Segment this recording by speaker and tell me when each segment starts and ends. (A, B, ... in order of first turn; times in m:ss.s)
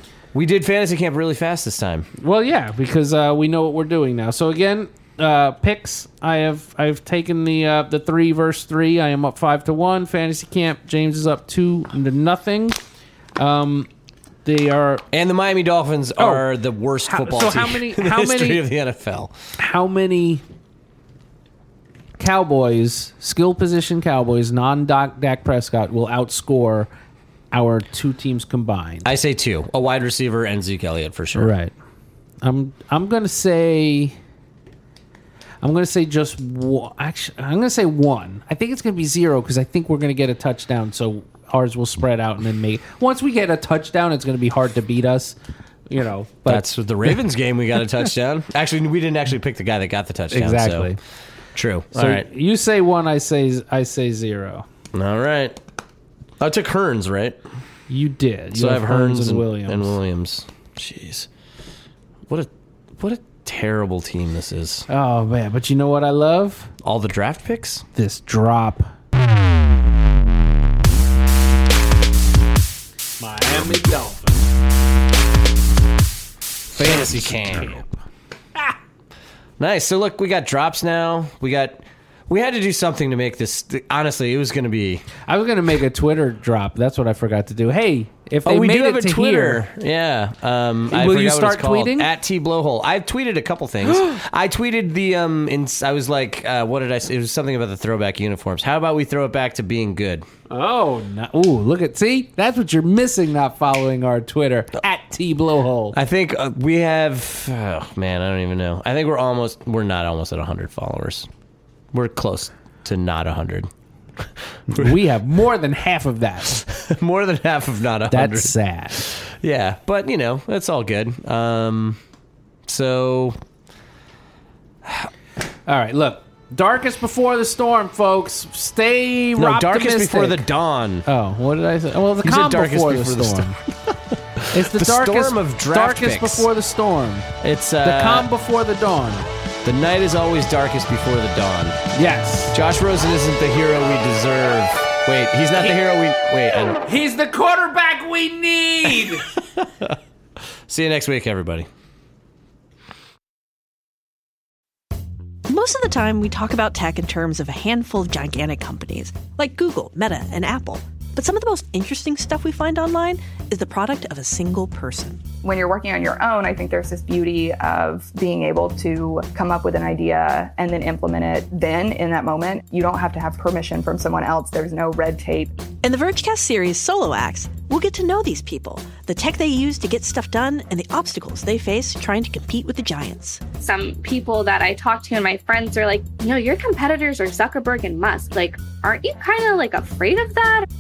0:00.3-0:02.1 A
0:02.2-0:12.8 B
0:13.4-0:13.9 B
0:14.4-0:15.0 B
0:15.1-0:19.3 A
0:16.2-0:16.4 B
0:17.1-0:18.6 B
0:19.6-0:20.4 B
0:22.2-0:26.9 B
0:27.5-0:29.1 B
0:29.0-0:31.5 A
0:31.4-0:31.7 B
0:32.4-0:34.2 B
0:35.6-0:45.4 B
0:45.9-0:47.2 B
0:46.5-0:50.9 A
0:50.3-0:51.0 B
0:51.6-0:52.3 A
0:52.0-0:54.7 B
0:54.9-0:55.6 A
0:56.4-0:57.4 A
0:57.9-1:00.0 B
0:58.5-1:01.3 A
1:02.3-1:04.9 A
1:04.9-1:06.7 B
1:06.8-1:07.8 A
1:08.0-1:08.9 B
1:13.2-1:14.5 B
1:16.8-1:17.8 A
1:16.8-1:18.0 B
1:19.6-1:25.0 A
1:25.3-1:29.6 B
1:28.4-1:40.3 A
1:30.9-1:32.1 B
1:33.9-1:34.1 B
1:40.5-1:46.0 B
1:45.9-1:51.3 A
1:51.9-1:53.7 A
1:54.2-1:55.0 A
1:54.7-1:56.6 B
1:56.6-2:02.0 A
1:58.1-1:59.0 B
2:02.7-2:03.4 A
2:05.7-2:10.4 B
2:09.4-2:11.1 A
2:11.1-2:13.6 B
2:12.2-2:16.5 A
2:14.5-2:17.3 B
2:17.4-2:18.3 A
2:17.8-2:19.3 B
2:19.6-2:21.8 A
2:22.0-2:22.6 B
2:22.5-2:26.8 A
2:26.8-2:29.3 B
2:28.9-2:30.0 A
2:30.7-2:31.7 A
2:35.5-2:45.2 C
2:45.4-2:55.5 D
2:55.8-3:03.4 C
3:03.6-3:10.7 E